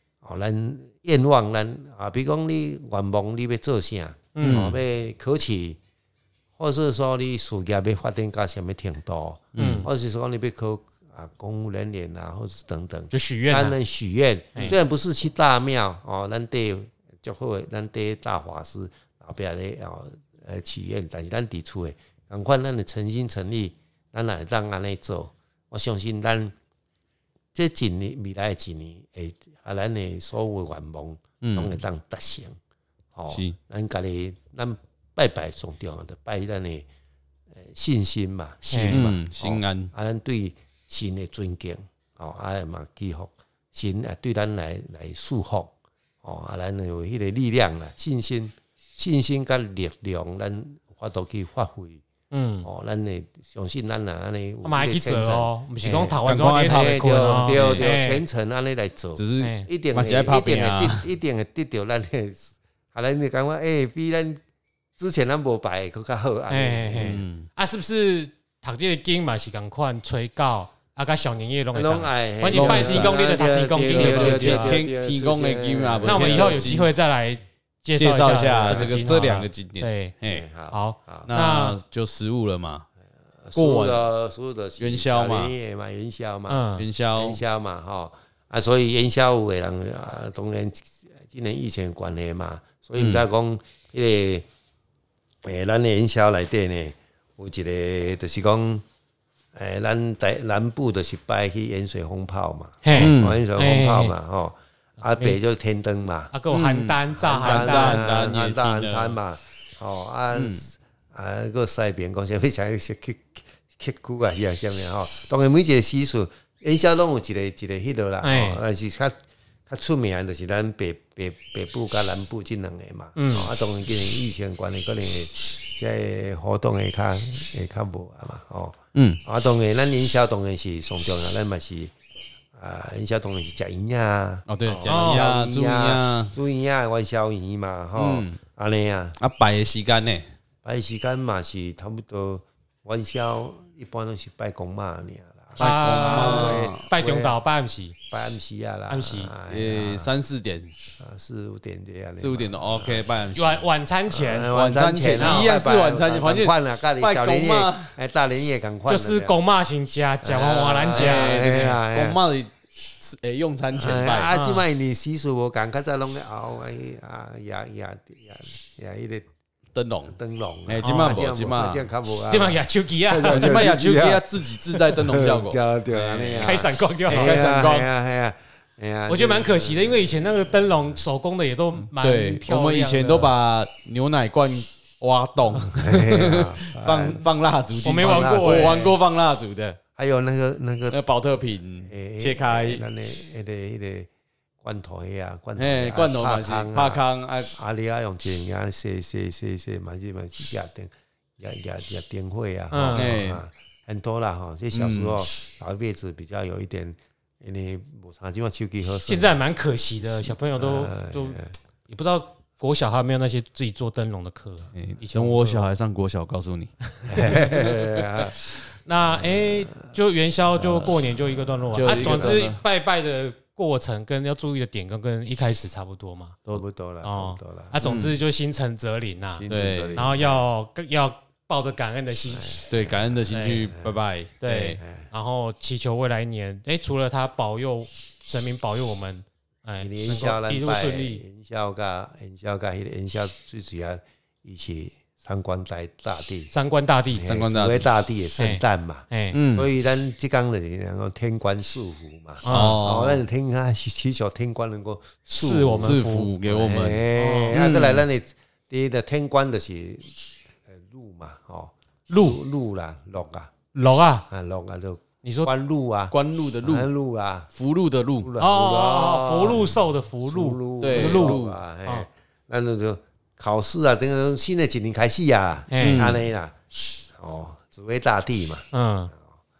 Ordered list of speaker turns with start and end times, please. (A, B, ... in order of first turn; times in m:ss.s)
0:00.2-0:05.8 A
0:04.3-0:04.7 B
0:04.4-0:04.8 C
0:06.6-0:26.5 A
0:09.6-0:09.9 C
0:09.6-0:09.9 B
0:13.1-0:13.8 B
0:27.5-0:32.6 A
0:31.4-0:31.7 C
0:33.1-0:36.8 A
0:33.3-0:33.6 C
0:37.6-0:52.0 A
0:38.7-0:39.0 B
0:38.9-0:39.9 C
0:52.3-0:52.7 B
0:52.6-1:04.4 A
0:54.6-0:58.2 B
0:55.8-0:57.9 C
0:59.2-1:01.1 C
0:59.4-0:59.7 B
1:05.0-1:07.2 A
1:06.5-1:14.8 B
1:07.0-1:07.5 C
1:11.7-1:16.7 A
1:12.5-1:16.9 C
1:16.0-1:20.1 B
1:17.9-1:20.4 C
1:18.6-1:19.2 A
1:20.3-1:21.3 A
1:20.7-1:21.8 B
1:21.3-1:22.8 C
1:23.4-1:34.4 A
1:23.5-1:24.1 C
1:24.8-1:25.5 C
1:26.5-1:26.9 B
1:26.8-1:27.4 C
1:33.0-1:33.2 C
1:35.4-1:38.8 A
1:39.5-1:46.3 A
1:42.8-1:44.1 B
1:43.0-1:43.4 C
1:46.3-1:48.3 B
1:46.5-1:49.2 C
1:47.1-1:59.1 A
1:50.3-1:50.7 C
1:58.2-1:58.6 B
1:59.7-2:11.9 A
2:03.2-2:03.5 B
2:08.9-2:09.2 C
2:12.5-2:19.2 A
2:14.5-2:16.4 C
2:14.7-2:15.2 B
2:18.0-2:18.4 C
2:19.2-2:20.2 C
2:20.6-2:27.4 A
2:25.6-2:27.9 B
2:25.6-2:26.8 C
2:28.1-2:30.2 A
2:28.9-2:29.3 B
2:29.5-2:30.7 C
2:31.0-2:33.3 A
2:32.2-2:33.6 C
2:33.3-2:34.5 B
2:34.1-2:39.4 A
2:34.5-2:37.9 C
2:35.2-2:35.5 B
2:38.9-2:41.8 B
2:40.2-2:42.2 A
2:40.9-2:44.3 C
2:43.7-2:49.3 A
2:44.3-2:44.6 B
2:49.7-2:51.8 C
2:50.1-3:00.8 A
2:50.8-2:51.2 B
2:52.3-2:53.6 B
2:53.2-2:57.9 C
2:56.4-2:57.4 B
2:59.1-3:03.3 B
3:02.0-3:09.8 C
3:05.6-3:07.2 A
3:07.8-3:08.9 B
3:07.9-3:09.0 A
3:10.0-3:11.0 A
3:10.9-3:12.8 C
3:11.8-3:14.1 A
3:14.6-3:29.4 A
3:15.6-3:17.5 C
3:22.7-3:23.1 B
3:22.9-3:23.4 C
3:24.7-3:25.2 C
3:29.0-3:35.7 B
3:30.0-3:31.5 A
3:34.7-3:36.7 C
3:37.1-3:38.4 A
3:37.1-3:37.7 B
3:38.8-3:46.4 B
3:39.0-3:40.0 A
3:40.5-3:42.4 A
3:41.7-3:42.6 C
3:46.5-3:47.8 A
3:47.0-3:52.5 B
3:47.8-3:48.2 C
3:49.3-3:50.4 A
3:49.5-3:50.0 C
3:52.2-3:53.9 A
3:52.7-3:54.8 C
3:53.3-3:53.7 B
3:54.4-4:01.2 B
3:54.8-3:55.1 A
3:59.8-4:06.5 A
4:06.5-4:07.3 B
4:07.1-4:23.5 A
4:07.2-4:07.9 C
4:08.4-4:09.4 B
4:09.3-4:09.7 C
4:12.4-4:12.8 B
4:12.4-4:13.2 C
4:15.3-4:16.3 B
4:15.8-4:18.0 C
4:17.2-4:17.6 B
4:22.1-4:22.4 B
4:23.7-4:24.2 B
4:24.3-4:27.5 A
4:25.2-4:25.5 B
4:26.1-4:26.9 C
4:27.5-4:28.3 C
4:28.2-4:36.6 A
4:28.4-4:32.1 B
4:30.8-4:31.6 C
4:35.7-4:36.1 B
4:35.8-4:36.2 C
4:37.1-4:39.4 A
4:38.7-4:39.1 B